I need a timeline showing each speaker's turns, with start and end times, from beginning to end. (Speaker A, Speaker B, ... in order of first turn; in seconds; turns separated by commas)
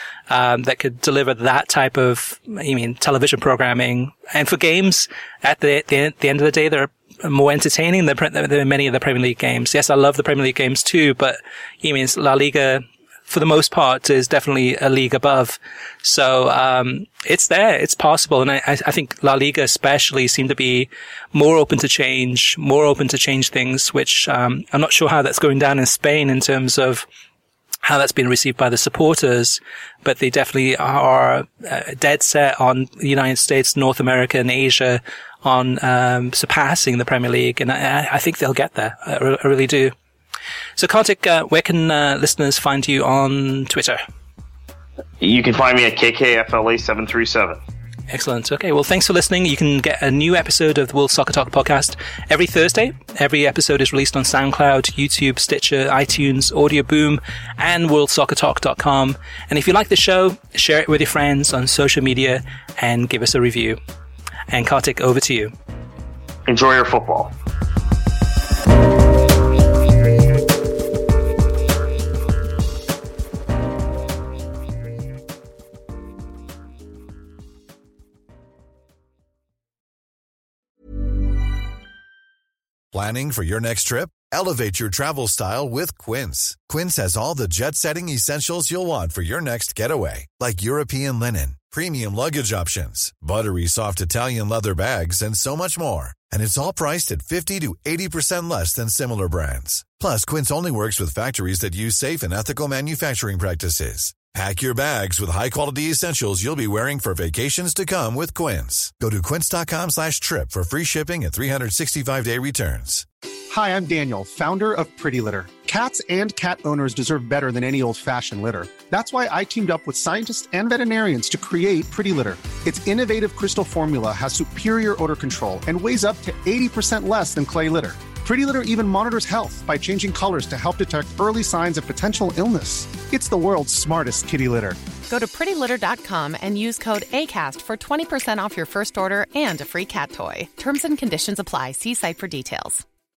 Speaker A: 0.3-27.1, Speaker A: 27.8-39.9, Speaker A: 40.8-44.0, Speaker B: 45.2-47.6, Speaker A: 48.1-63.8, Speaker A: 64.5-65.5, Speaker B: 66.5-67.3, Speaker C: 82.9-113.1, Speaker D: 113.5-134.8, Speaker E: 135.1-142.8